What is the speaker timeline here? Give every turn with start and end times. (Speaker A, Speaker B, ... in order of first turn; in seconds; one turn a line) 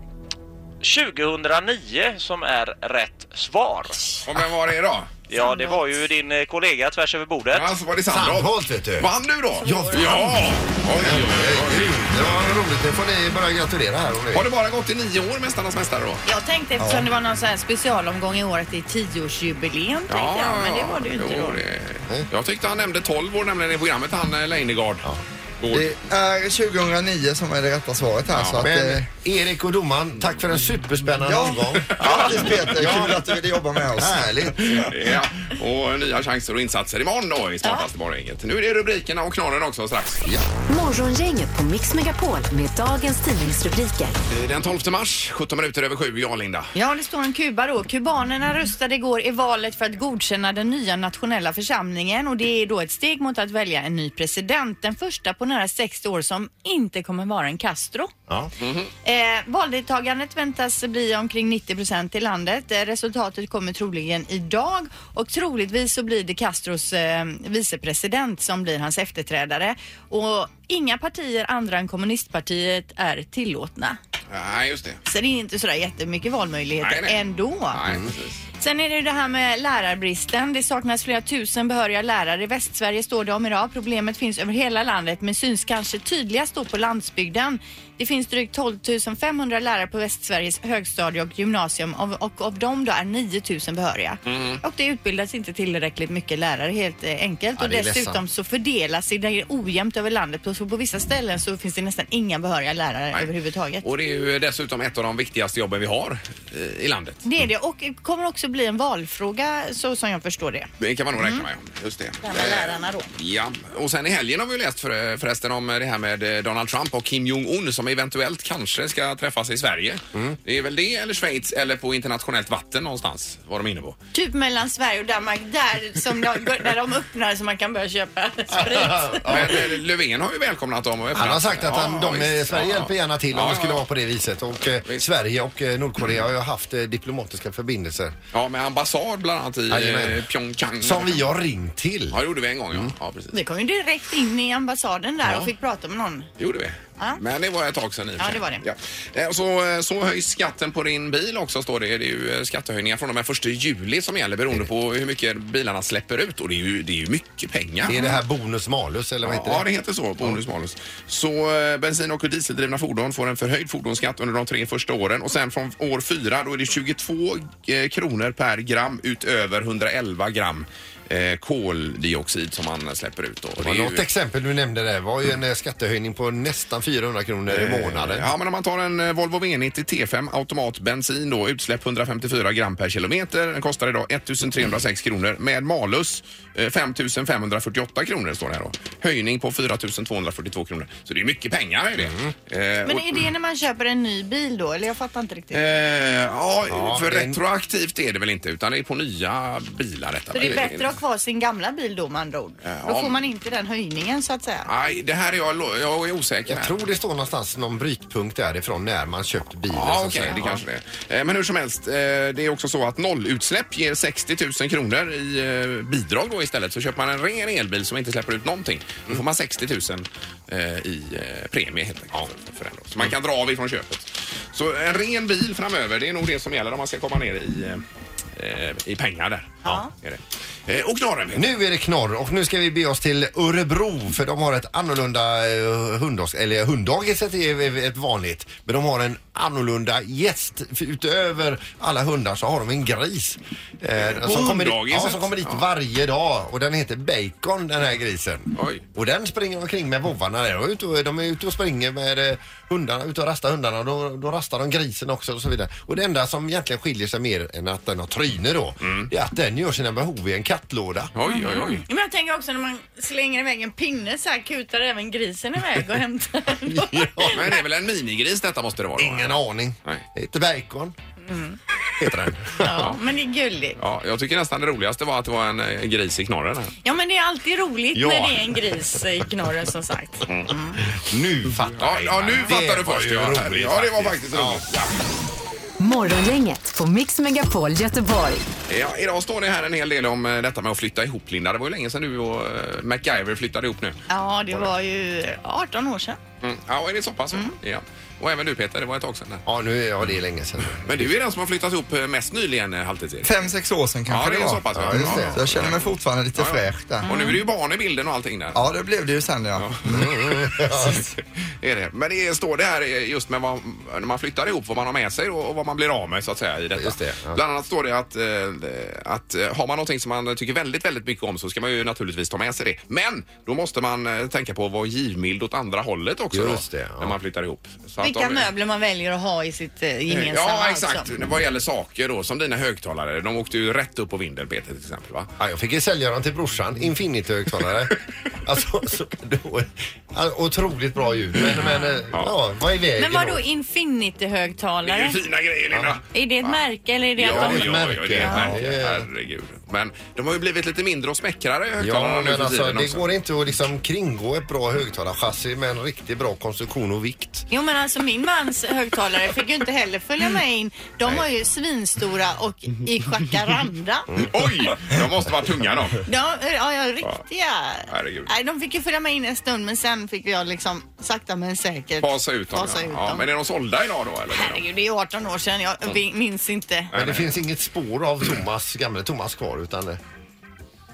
Speaker A: 0.8-4.1
Speaker B: 4.2-5.1
Speaker A: 5.3-7.7
Speaker C: 5.3-5.9
Speaker B: 7.5-12.0
Speaker D: 8.1-14.5
Speaker C: 9.6-10.1
Speaker B: 14.3-16.2
Speaker C: 16.2-21.6
Speaker E: 16.8-17.1
Speaker B: 20.1-25.1
Speaker B: 25.6-25.9
Speaker E: 25.7-29.1
Speaker B: 28.3-28.6
Speaker D: 28.6-33.2
Speaker E: 31.2-34.9
Speaker B: 31.9-32.4
Speaker D: 34.0-34.8
Speaker B: 34.7-40.2
Speaker F: 40.7-44.1
Speaker B: 44.3-46.7
Speaker C: 46.7-58.1
Speaker B: 58.6-58.9
Speaker C: 59.0-74.0
Speaker B: 74.3-75.0
Speaker C: 75.0-77.8
Speaker B: 76.8-78.4
Speaker C: 78.6-103.9
Speaker B: 94.2-94.6
Speaker D: 97.5-98.2
Speaker B: 103.8-107.2
Speaker C: 107.2-111.4
Speaker B: 110.8-124.0
Speaker C: 112.2-113.1
Speaker C: 124.1-129.4
Speaker D: 128.5-129.7
Speaker B: 129.2-133.8
Speaker D: 131.1-138.2
Speaker B: 138.3-141.2
Speaker D: 139.7-140.2
Speaker D: 140.8-142.2
Speaker B: 142.1-143.3
Speaker C: 143.3-146.3
Speaker B: 145.2-145.5
Speaker B: 146.4-158.1
Speaker C: 148.2-148.6
Speaker D: 157.8-159.7
Speaker B: 159.2-174.0
Speaker D: 173.6-178.3
Speaker B: 177.5-193.2
Speaker D: 192.0-192.3
Speaker C: 192.8-195.6
Speaker B: 195.5-200.9
Speaker D: 196.7-197.4
Speaker C: 200.3-204.7
Speaker B: 202.6-203.2
Speaker B: 204.7-206.8
Speaker D: 206.5-210.6
Speaker B: 209.7-227.8
Speaker B: 228.4-231.5
Speaker C: 229.6-229.9
Speaker D: 231.3-261.1
Speaker B: 244.0-245.6
Speaker B: 248.6-248.8
Speaker B: 258.8-259.1
Speaker B: 261.1-261.8
Speaker C: 261.2-267.5
Speaker D: 266.7-267.5
Speaker B: 267.3-270.0
Speaker D: 269.0-270.9
Speaker C: 271.2-271.6
Speaker D: 272.0-272.9
Speaker C: 272.6-273.8
Speaker B: 273.8-276.8
Speaker C: 276.8-280.8
Speaker D: 277.9-278.6
Speaker D: 280.9-284.6
Speaker B: 281.8-284.9
Speaker F: 285.8-288.5
Speaker B: 288.7-294.0
Speaker C: 294.1-296.2
Speaker B: 296.4-299.4
Speaker D: 299.4-301.1
Speaker B: 300.8-303.3
Speaker E: 303.2-307.1
Speaker B: 304.1-308.6
Speaker D: 304.7-305.7
Speaker C: 307.0-307.4
Speaker E: 308.5-310.0
Speaker B: 309.6-328.5
Speaker D: 309.9-311.1
Speaker D: 316.8-317.4
Speaker D: 326.3-327.1
Speaker C: 328.0-331.1
Speaker B: 330.1-335.3
Speaker D: 335.4-343.4
Speaker C: 343.0-345.2
Speaker B: 344.9-346.6
Speaker C: 346.1-348.5
Speaker B: 347.2-353.1
Speaker D: 347.2-349.1
Speaker D: 351.8-357.5
Speaker C: 357.5-364.1
Speaker B: 364.2-366.0
Speaker C: 366.1-373.2
Speaker B: 367.9-368.3
Speaker B: 372.0-374.6
Speaker C: 374.3-376.9
Speaker B: 376.9-377.4
Speaker D: 376.9-380.0